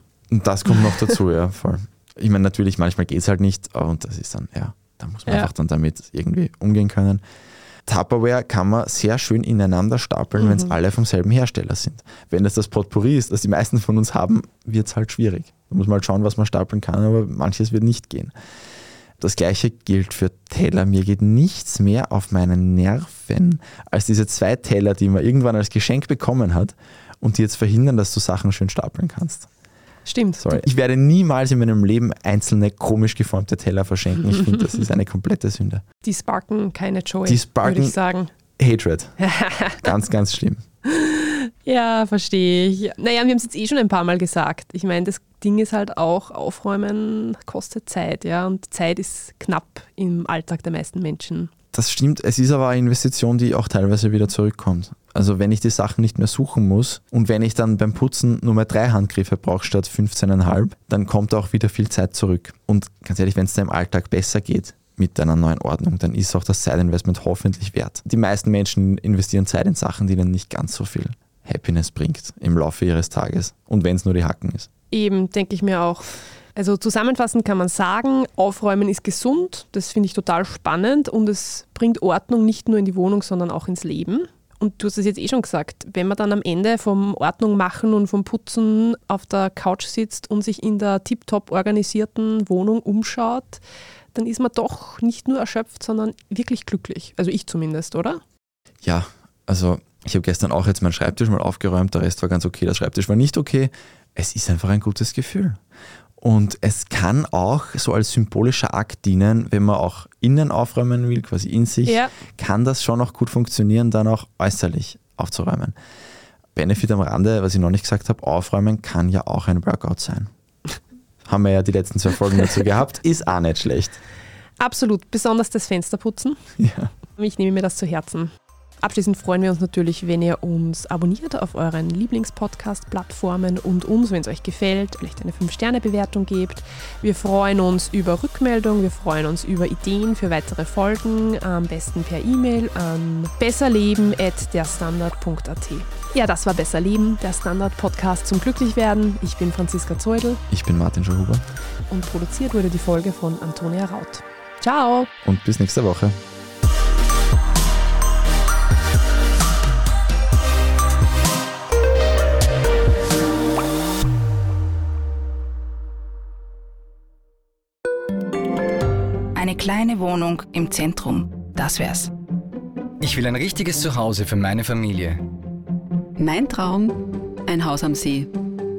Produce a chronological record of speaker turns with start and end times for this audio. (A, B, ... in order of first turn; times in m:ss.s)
0:00.3-0:07.2 A
0:07.8-0:18.3 A
0:10.4-0:10.7 B
0:19.2-0:29.5 A
0:30.0-0:30.6 B
0:30.4-0:35.8 A
0:36.0-0:38.3 B
0:37.2-0:38.0 A
0:38.6-0:39.2 A
0:39.2-0:39.9 B
0:39.8-0:40.6 A
0:40.8-0:51.5 B
0:51.7-1:14.7 A
1:14.9-1:33.6 B
1:34.1-1:38.2 B
1:38.8-1:45.6 A
1:46.2-1:55.8 A
1:51.8-1:52.1 B
1:56.5-2:00.3 A
2:01.2-2:04.0 A
2:04.6-2:06.4 B
2:06.6-2:06.9 A
2:07.2-2:30.4 B
2:30.5-2:31.5 A
2:31.9-2:35.1 B
2:35.2-2:36.2 A
2:49.3-2:52.1 C
2:53.0-2:55.2 D
2:56.2-2:58.3 E